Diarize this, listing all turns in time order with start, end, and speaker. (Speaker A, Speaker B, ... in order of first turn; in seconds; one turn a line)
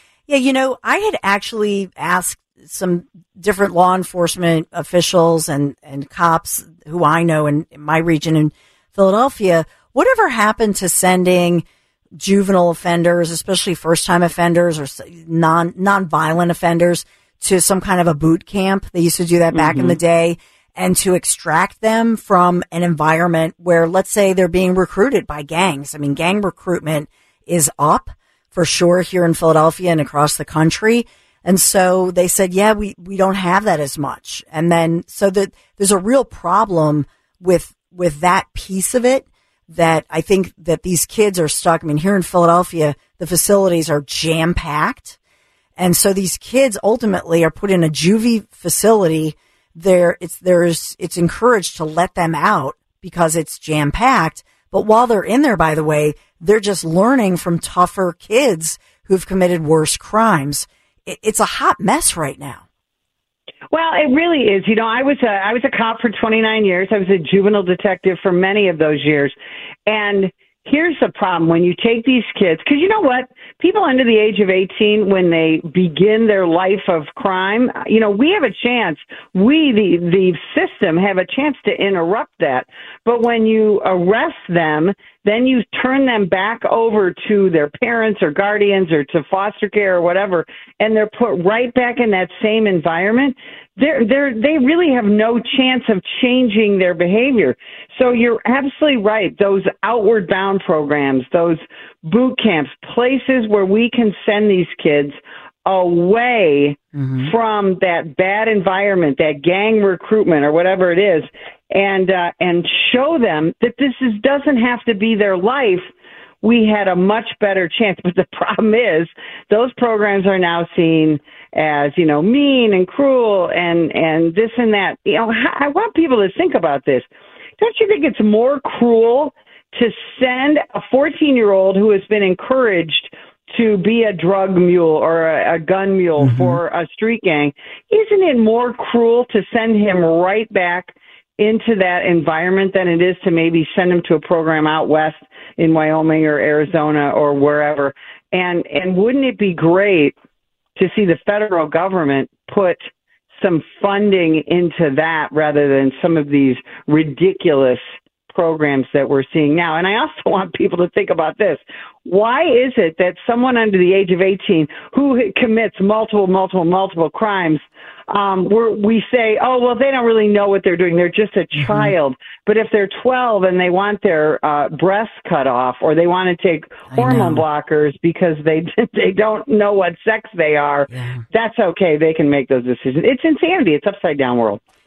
Speaker A: 0.3-11.6
Speaker A: 12.2-45.2
Speaker B: 19.5-20.0
Speaker A: 45.8-62.6
Speaker B: 63.7-69.3
Speaker B: 69.9-115.8
Speaker A: 107.0-107.3
Speaker B: 116.4-127.0
Speaker B: 127.6-150.2
Speaker A: 136.2-136.6
Speaker B: 150.8-152.8
Speaker B: 153.3-184.6
Speaker A: 171.6-171.9
Speaker A: 176.9-177.4
Speaker A: 180.9-181.2